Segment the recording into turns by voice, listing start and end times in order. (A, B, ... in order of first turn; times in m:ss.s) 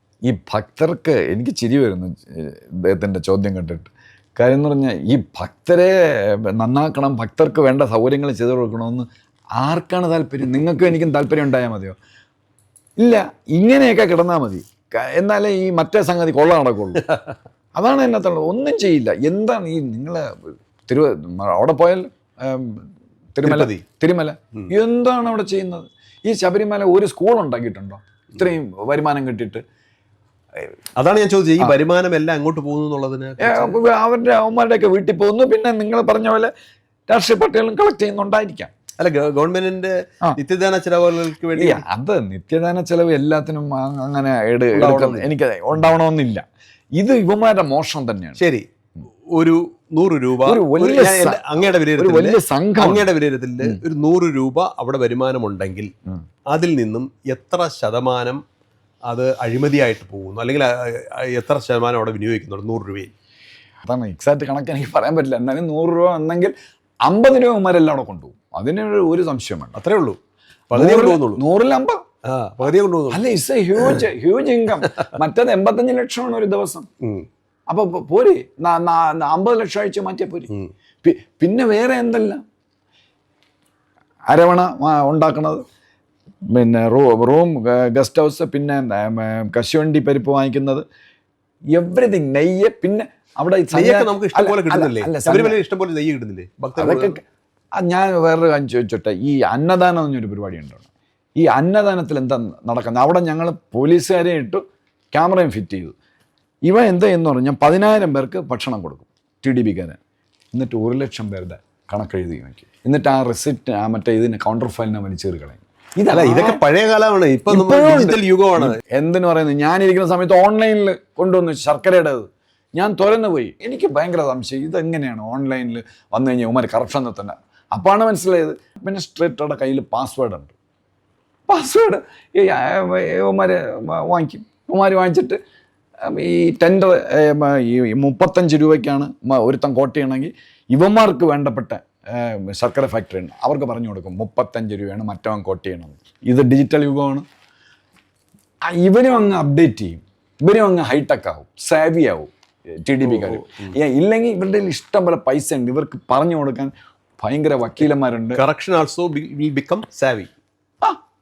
0:00.2-0:09.0 A
0:09.6-0:12.0 A
0:13.0-0:17.0 A
0:17.0-0:17.3 B
0:17.7-0:29.6 A
0:23.4-0:23.8 B
0:31.0-0:33.8 B
0:33.4-0:36.5 A
0:37.1-0:38.7 A
0:39.0-0:41.8 B
0:41.6-0:46.4 A
0:44.7-0:45.3 B
0:47.0-0:48.4 A
0:48.4-0:48.6 B
0:49.3-0:55.9 B
0:50.4-0:53.1 A
0:56.5-0:58.4 B
0:59.1-1:03.1 B
1:03.8-1:06.5 A
1:07.0-1:09.8 A
1:09.7-1:10.2 B
1:10.7-1:11.4 B
1:10.7-1:12.0 A
1:12.2-1:13.2 B
1:13.1-1:16.8 A
1:13.8-1:14.0 B
1:14.9-1:15.1 B
1:17.0-1:17.3 B
1:17.7-1:20.5 A
1:21.0-1:22.4 A
1:24.3-1:25.6 A
1:26.5-1:30.8 A
1:31.7-1:35.6 A
1:33.7-1:37.2 B
1:36.8-1:37.2 A
1:37.8-1:45.9 A
1:46.6-1:50.0 A
1:50.5-1:56.6 A
1:56.1-1:58.8 B
1:57.5-2:10.5 A
2:11.5-2:15.4 A
2:16.0-2:27.2 A
2:28.7-2:32.3 A
2:32.8-2:38.4 A
2:33.0-2:33.7 B
2:38.4-2:40.3 B